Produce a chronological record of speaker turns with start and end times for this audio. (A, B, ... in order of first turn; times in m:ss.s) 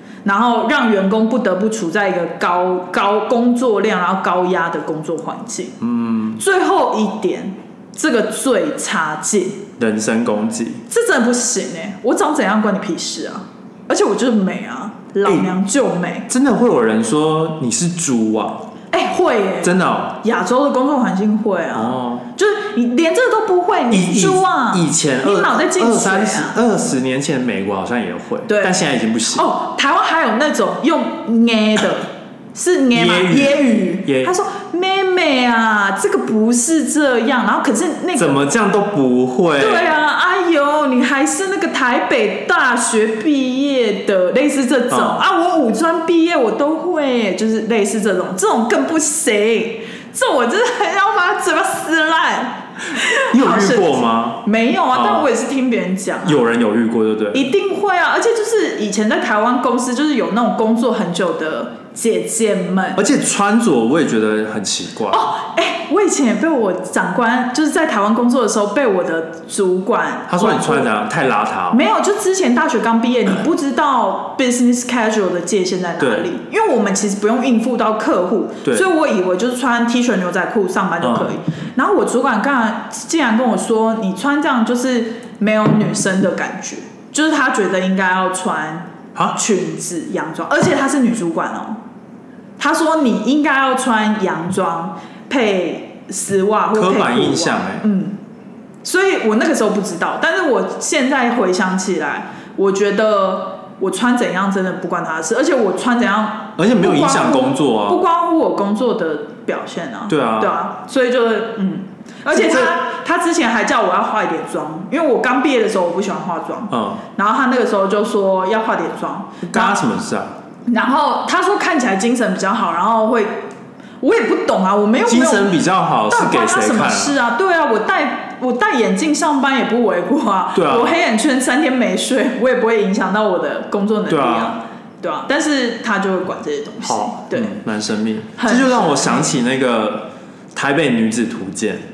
0:00.2-0:05.8 A
0:05.8-0:06.4 B
0:06.4-0:09.7 A
0:09.8-0:10.8 B
0:10.9-0:16.3 A
0:15.2-0:15.5 B
0:16.3-0:18.7 B
0:18.9-0:26.6 A
0:19.6-0:20.2 B
0:21.7-0:22.3 B
0:23.9-0:29.5 B
0:28.5-0:28.8 A
0:29.3-0:38.4 A
0:32.9-0:34.3 B
0:38.2-0:39.9 B
0:39.6-0:56.4 A
0:44.9-0:45.2 B
0:53.3-0:55.3 B
0:56.2-0:57.5 B
0:57.3-1:03.0 A
1:03.0-1:05.2 B
1:05.1-1:10.9 A
1:10.3-1:11.8 B
1:11.7-1:31.8 A
1:16.0-1:16.3 B
1:21.0-1:21.4 B
1:32.6-1:38.2 A
1:36.7-1:37.8 B
1:38.8-1:59.8 A
1:46.6-1:48.0 B
1:50.1-1:50.6 B
1:52.3-1:52.8 B
1:56.7-1:57.0 B
1:59.4-2:00.3 B
2:00.7-2:03.4 A
2:04.0-2:05.6 A
2:05.0-2:07.2 B
2:06.1-2:17.6 A
2:10.6-2:11.0 B
2:14.1-2:14.6 B
2:16.8-2:21.8 B
2:18.4-2:19.3 A